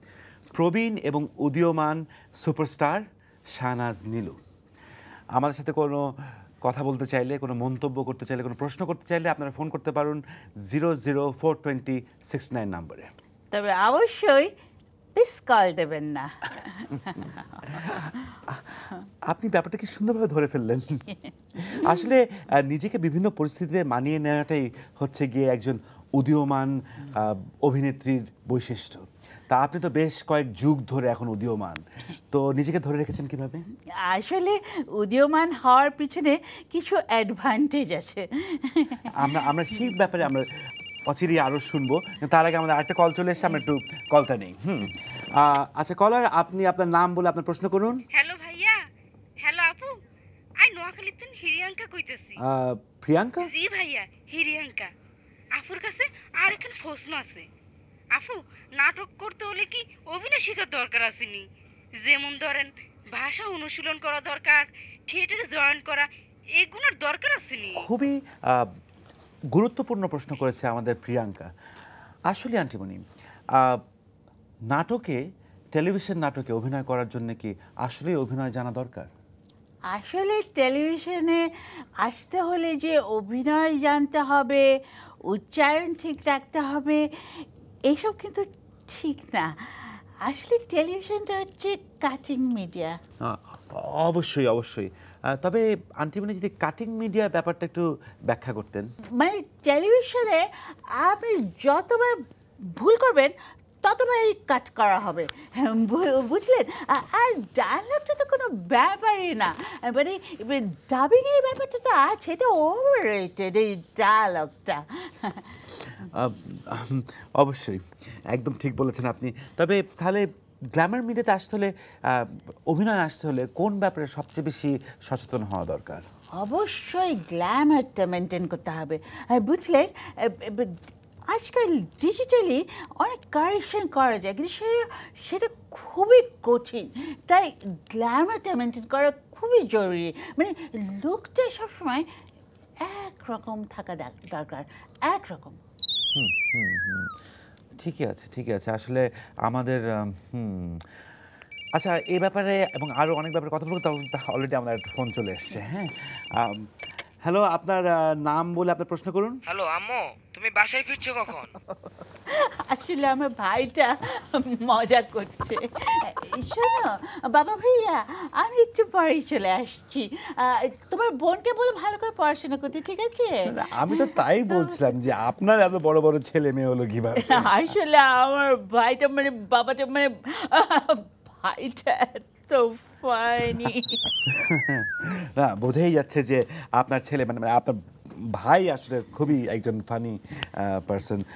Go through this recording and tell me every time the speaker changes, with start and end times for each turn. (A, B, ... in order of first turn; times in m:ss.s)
0:00.5-0:03.0 A
0:03.6-0:04.4 A
0:05.4-0:06.0 A
0:06.6-0:13.1 A
0:13.5-0:14.5 B
0:15.2-0:17.6 B
0:17.7-0:21.0 A
0:21.7-0:33.6 A
0:21.8-0:22.1 B
0:34.0-0:39.9 B
0:39.2-0:40.5 A
0:41.1-0:48.0 A
0:48.1-0:48.8 C
0:49.4-0:49.9 C
0:50.6-0:52.4 C
0:52.4-0:53.5 A
0:53.4-0:54.9 C
0:55.5-0:57.4 C
0:58.1-1:01.4 C
1:02.0-1:06.1 C
1:06.6-1:07.9 C
1:07.8-1:08.7 A
1:09.5-1:11.5 A
1:12.3-1:13.0 A
1:14.7-1:15.2 A
1:15.7-1:19.1 A
1:19.9-1:21.4 B
1:22.0-1:24.6 B
1:25.3-1:27.0 B
1:27.9-1:33.0 B
1:33.2-1:38.9 A
1:39.2-1:40.4 B
1:41.0-1:42.2 B
1:42.8-1:55.6 B
1:56.1-2:06.0 A
2:06.4-2:10.7 B
2:11.3-2:22.0 B
2:22.8-2:25.6 B
2:26.1-2:27.1 A
2:27.8-2:30.8 A
2:31.8-2:35.9 A
2:37.2-2:39.4 A
2:39.5-2:41.5 D
2:42.6-2:53.3 B
2:53.5-2:57.6 A
2:53.9-2:54.9 B
2:57.3-3:04.0 B
3:04.3-3:11.3 A